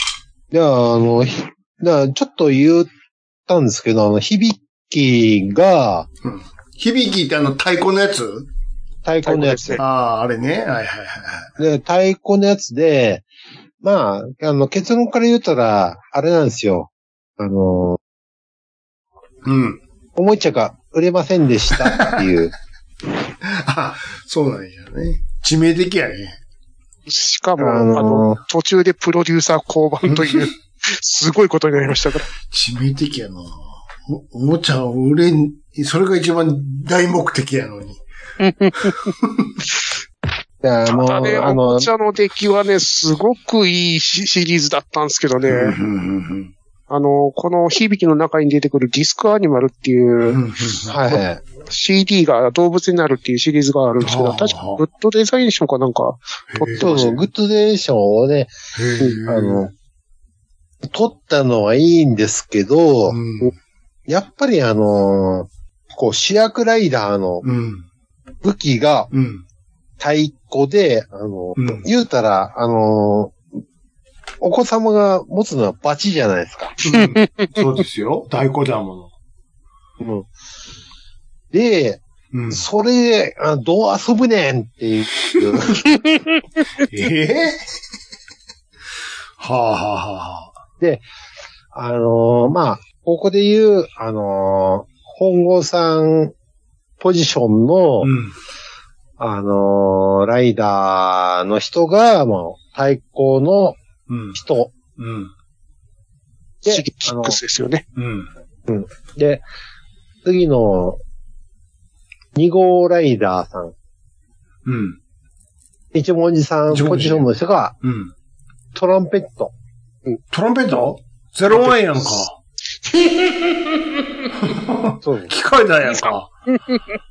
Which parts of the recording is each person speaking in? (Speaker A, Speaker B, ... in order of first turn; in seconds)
Speaker A: 0.5-2.9, 3.5-6.1, 9.0-9.8, 11.6-13.2, 13.8-18.0, 20.1-22.5, 27.6-28.4, 40.6-41.9, 50.8-51.4, 56.8-59.7, 60.8-63.2, 64.1-67.4, 68.4-69.1, 70.0-73.4, 74.4-76.8, 80.0-80.3, 81.5-85.8, 91.7-96.3, 97.0-98.1, 99.2-103.8, 104.3-104.7, 106.6-107.4, 108.7-109.4, 110.2-111.0, 112.3-113.7, 115.9-117.8, 118.7-119.5, 125.0-125.3
Speaker B: 6.2-8.5, 9.8-11.5, 19.4-19.8, 21.8-22.3, 23.4-26.4, 32.5-38.0, 45.5-46.5, 50.3-50.9, 54.0-54.8, 56.5-57.2, 58.7-59.6, 63.1-63.5, 67.4-67.8, 69.1-69.4, 71.6-71.8, 76.8-79.1, 82.3-82.6, 86.8-87.6, 89.4-90.5, 98.0-98.3, 104.1-104.4, 105.0-105.3, 108.0-108.3, 114.6-115.0, 116.7-117.2, 117.8-118.1, 120.3-122.4, 124.4-126.3
Speaker C: 9.2-9.8, 27.1-32.3, 38.4-38.9, 40.9-45.8, 46.9-50.4, 51.6-57.1, 106.7-107.8